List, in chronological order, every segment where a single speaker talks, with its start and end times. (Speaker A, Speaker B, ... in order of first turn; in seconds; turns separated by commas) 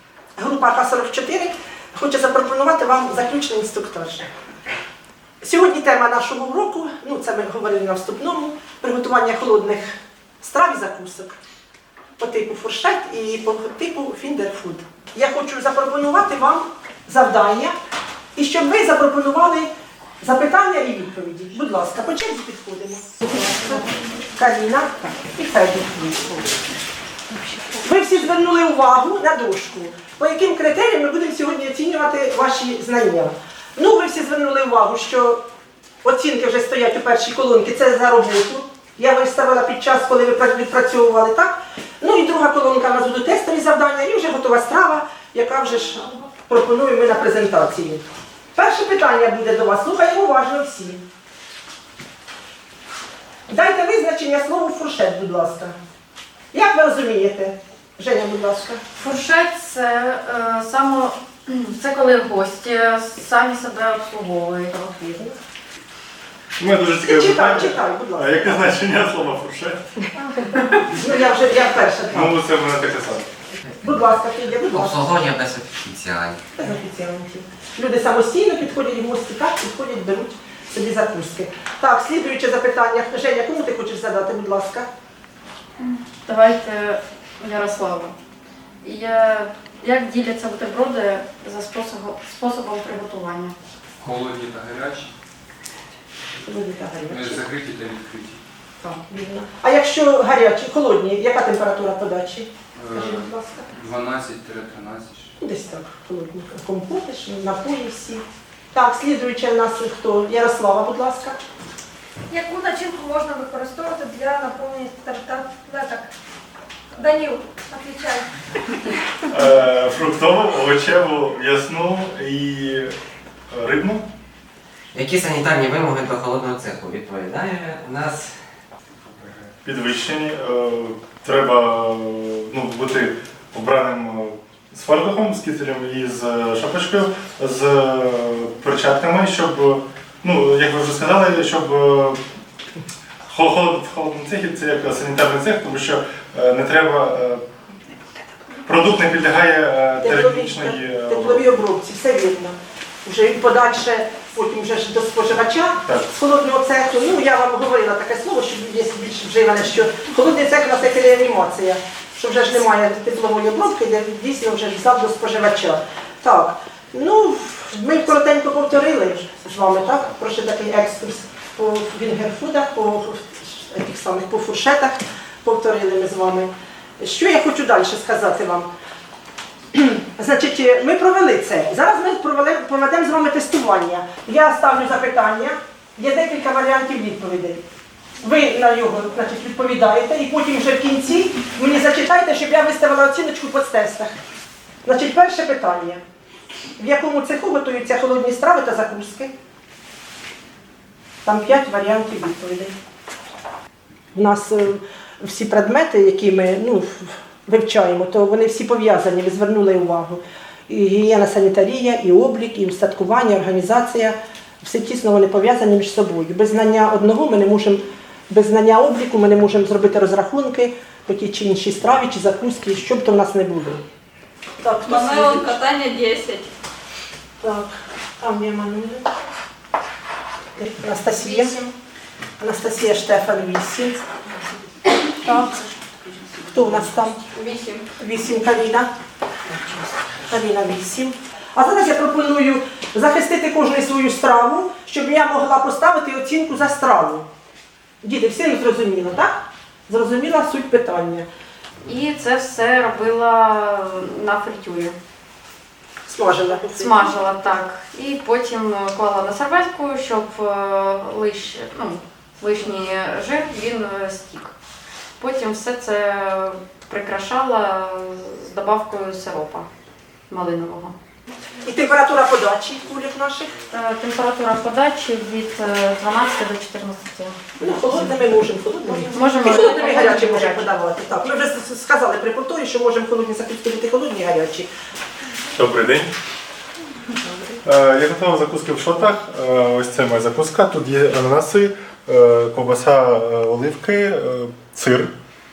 Speaker A: 0.3-4.2, Speaker A: 5.4-11.3, Speaker A: 12.2-17.7, Speaker A: 18.3-19.7, Speaker A: 20.2-26.5, Speaker A: 27.8-35.4, Speaker A: 36.0-48.0, Speaker A: 48.5-51.0, Speaker A: 53.5-55.7, Speaker A: 56.5-58.8, Speaker B: 59.0-64.7, Speaker A: 64.7-65.3, Speaker C: 66.6-69.8, Speaker A: 67.0-68.7, Speaker A: 70.9-72.3, Speaker C: 72.1-73.3, Speaker A: 73.8-75.2, Speaker D: 74.6-76.4, Speaker A: 76.5-84.9, Speaker B: 85.8-88.1, Speaker B: 88.8-93.5, Speaker E: 94.0-95.1, Speaker A: 96.4-97.4, Speaker E: 97.1-98.4, Speaker A: 98.8-103.7, Speaker E: 102.7-105.3, Speaker A: 105.4-111.4, Speaker F: 112.3-116.1, Speaker F: 117.0-118.2, Speaker C: 119.3-122.9, Speaker C: 123.5-124.0, Speaker D: 124.9-128.3, Speaker C: 129.2-142.2, Speaker C: 143.3-147.4, Speaker C: 148.7-151.4, Speaker A: 150.0-178.7, Speaker A: 179.7-187.6, Speaker A: 188.2-194.1, Speaker A: 194.8-196.0, Speaker A: 196.8-199.3, Speaker A: 201.2-202.7, Speaker A: 204.1-223.8, Speaker A: 224.6-225.5, Speaker G: 224.8-226.5, Speaker A: 227.4-229.1, Speaker A: 230.6-231.6, Speaker A: 232.4-234.0, Speaker A: 235.2-235.5, Speaker A: 236.4-237.2, Speaker G: 237.3-237.8, Speaker A: 238.0-238.9, Speaker A: 240.2-247.2, Speaker A: 248.0-251.2, Speaker B: 251.8-254.9, Speaker A: 256.1-257.2, Speaker B: 256.7-264.5, Speaker B: 265.2-269.7, Speaker B: 270.3-270.9, Speaker A: 271.6-273.5, Speaker B: 273.7-277.4, Speaker A: 277.6-284.7, Speaker B: 278.9-280.7, Speaker C: 285.6-286.1, Speaker C: 287.6-295.1